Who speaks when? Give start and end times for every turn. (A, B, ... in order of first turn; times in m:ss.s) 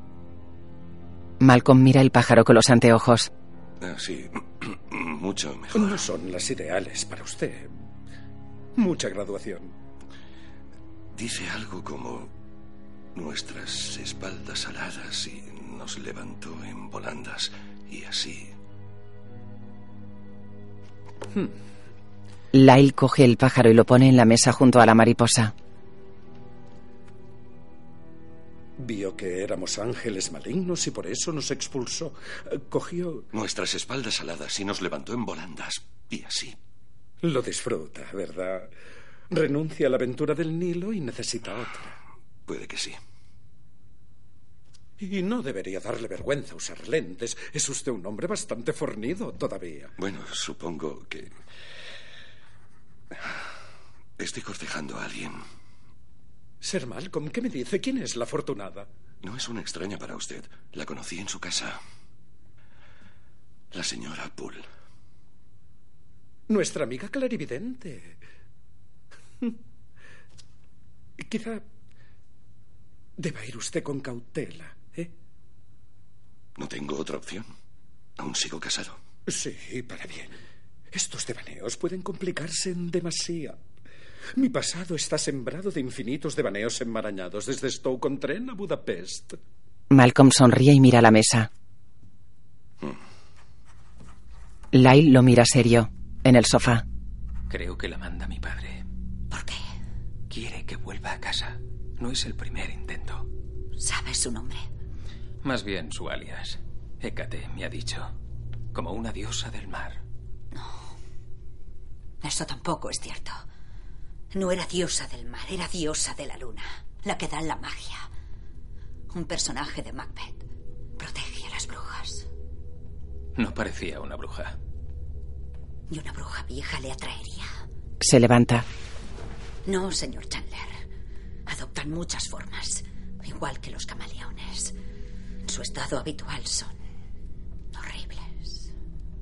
0:01.4-0:03.3 A
0:03.8-0:06.0 B
0:05.8-0:07.7 C
0:08.8-0:09.7 C
0:11.1-0:12.3 B
0:13.2-0:18.6 B
0:22.5-0:25.5 A
0:28.8-0:33.3 C
0:33.3-0:36.6 B
0:37.2-0:38.7 C
0:39.3-0:42.0 C
0:42.5-0:43.0 B
0:45.0-0:50.0 C
0:50.0-0:51.3 B
0:54.2-0:55.4 B
0:56.6-0:58.9 C
0:59.2-1:01.8 B
1:03.7-1:04.7 B
1:06.5-1:08.2 C
1:11.2-1:11.6 C
1:13.2-1:15.1 C
1:16.6-1:17.5 B
1:18.2-1:19.0 B
1:19.3-1:20.4 C
1:20.9-1:23.6 C
1:24.4-1:29.4 C
1:29.9-1:31.5 A
1:34.7-1:36.8 A
1:37.5-1:38.8 D
1:39.3-1:39.6 E
1:40.3-1:43.3 D
1:43.8-1:44.6 E
1:45.4-1:48.1 D
1:48.7-1:50.0 D
1:50.5-1:50.9 E
1:52.2-1:53.4 E
1:54.3-1:58.1 E
1:59.1-2:00.4 E
2:01.0-2:02.3 E
2:03.4-2:04.6 D
2:05.9-2:07.5 E
2:08.0-2:08.6 A
2:09.7-2:10.8 E
2:11.5-2:14.8 E
2:15.5-2:16.8 E
2:17.7-2:18.7 E